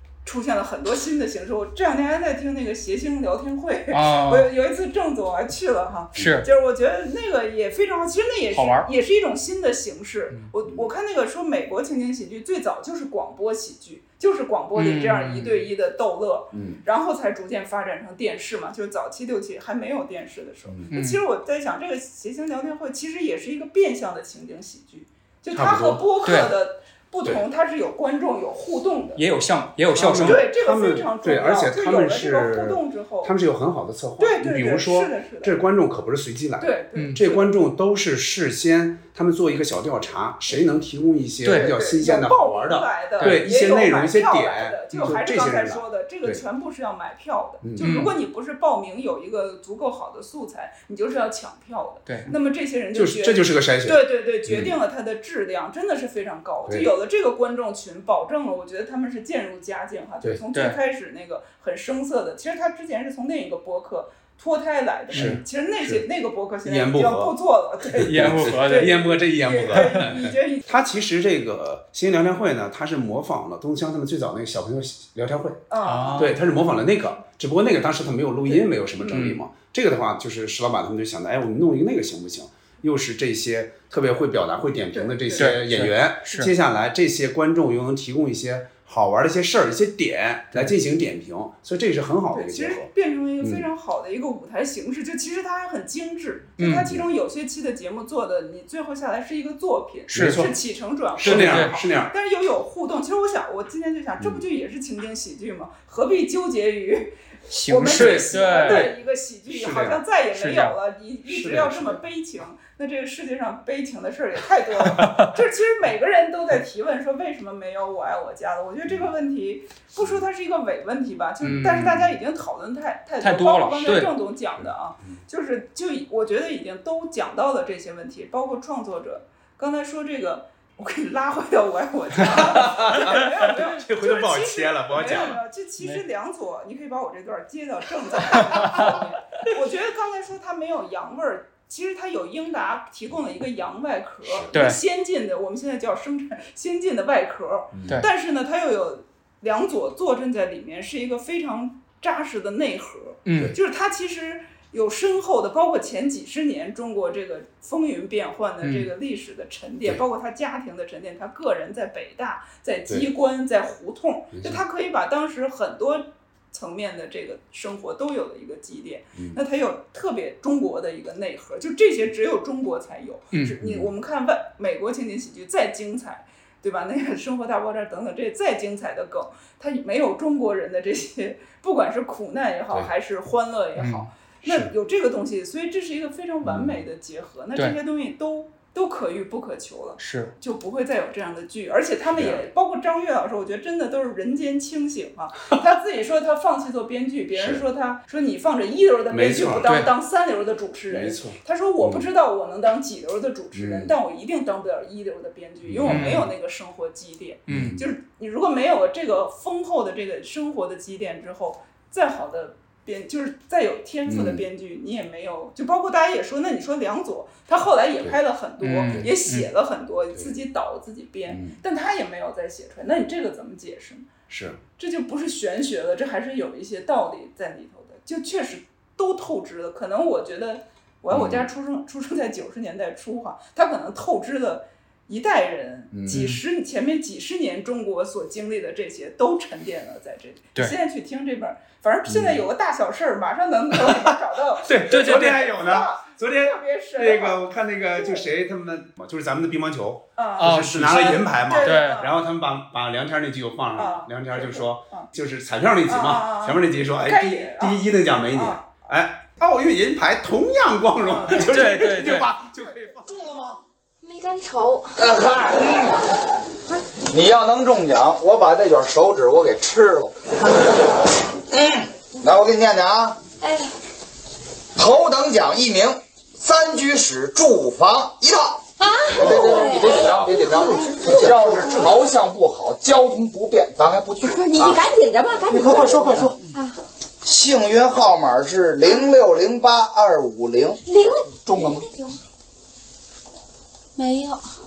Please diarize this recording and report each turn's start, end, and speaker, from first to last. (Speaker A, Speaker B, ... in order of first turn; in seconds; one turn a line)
Speaker A: 0.2-29.2
Speaker B: 3.9-4.5
Speaker C: 6.1-6.4
Speaker B: 6.2-6.5
Speaker B: 8.5-8.9
Speaker B: 14.8-15.7
Speaker C: 16.5-16.8
Speaker B: 20.9-21.2
Speaker C: 25.5-26.0
Speaker B: 26.2-26.5
Speaker B: 29.2-30.4
Speaker C: 29.9-46.4
Speaker A: 30.2-33.3
Speaker A: 34.2-35.5
Speaker A: 36.6-37.5
Speaker B: 41.4-41.7
Speaker A: 41.5-70.7
Speaker C: 47.6-47.9
Speaker B: 47.8-48.1
Speaker C: 52.9-54.7
Speaker B: 60.5-60.8
Speaker B: 65.1-65.4
Speaker C: 65.1-66.0
Speaker C: 66.6-67.4
Speaker C: 68.0-75.6
Speaker B: 68.0-69.0
Speaker A: 75.7-76.3
Speaker B: 75.8-76.4
Speaker C: 76.2-92.9
Speaker B: 79.1-79.4
Speaker A: 84.9-85.5
Speaker B: 85.4-86.5
Speaker A: 92.3-224.1
Speaker C: 93.4-93.7
Speaker B: 96.6-96.9
Speaker B: 100.1-100.5
Speaker C: 100.1-100.5
Speaker C: 101.2-102.1
Speaker B: 101.2-101.7
Speaker B: 107.5-108.9
Speaker C: 108.0-108.9
Speaker C: 109.5-110.0
Speaker B: 110.3-110.7
Speaker C: 111.3-112.0
Speaker B: 114.8-115.3
Speaker C: 118.9-119.1
Speaker C: 120.0-120.2
Speaker B: 121.4-122.1
Speaker B: 123.2-124.1
Speaker C: 124.6-125.2
Speaker C: 132.2-135.4
Speaker C: 144.2-144.5
Speaker B: 144.5-144.8
Speaker C: 147.7-148.0
Speaker B: 153.2-153.5
Speaker B: 158.6-158.9
Speaker C: 164.3-164.6
Speaker C: 173.6-173.9
Speaker B: 183.8-184.1
Speaker C: 184.4-184.7
Speaker C: 186.4-186.8
Speaker B: 190.0-190.3
Speaker C: 192.1-192.4
Speaker C: 197.3-197.6
Speaker C: 199.1-199.7
Speaker C: 200.9-202.1
Speaker C: 203.5-203.9
Speaker C: 205.6-206.2
Speaker B: 205.9-206.3
Speaker B: 207.5-207.8
Speaker C: 207.5-207.9
Speaker C: 214.1-214.4
Speaker B: 218.6-219.5
Speaker C: 218.9-219.1
Speaker C: 221.3-221.6
Speaker C: 224.3-224.6
Speaker A: 224.8-247.4
Speaker C: 231.1-231.5
Speaker C: 235.9-236.3
Speaker B: 236.1-236.4
Speaker C: 242.1-242.4
Speaker C: 244.6-263.6
Speaker B: 244.9-245.3
Speaker A: 247.9-248.3
Speaker A: 250.2-252.1
Speaker B: 250.4-252.0
Speaker A: 253.8-255.1
Speaker A: 255.9-258.7
Speaker A: 261.0-261.5
Speaker B: 261.4-262.3
Speaker D: 264.0-265.0
Speaker E: 265.0-266.0
Speaker E: 267.1-270.3
Speaker E: 271.5-273.2
Speaker D: 273.4-273.7
Speaker E: 274.8-284.8
Speaker D: 278.8-281.9
Speaker D: 284.2-286.8
Speaker E: 285.4-286.4
Speaker E: 287.2-290.8
Speaker D: 290.9-292.1
Speaker E: 291.4-291.9
Speaker D: 293.9-294.5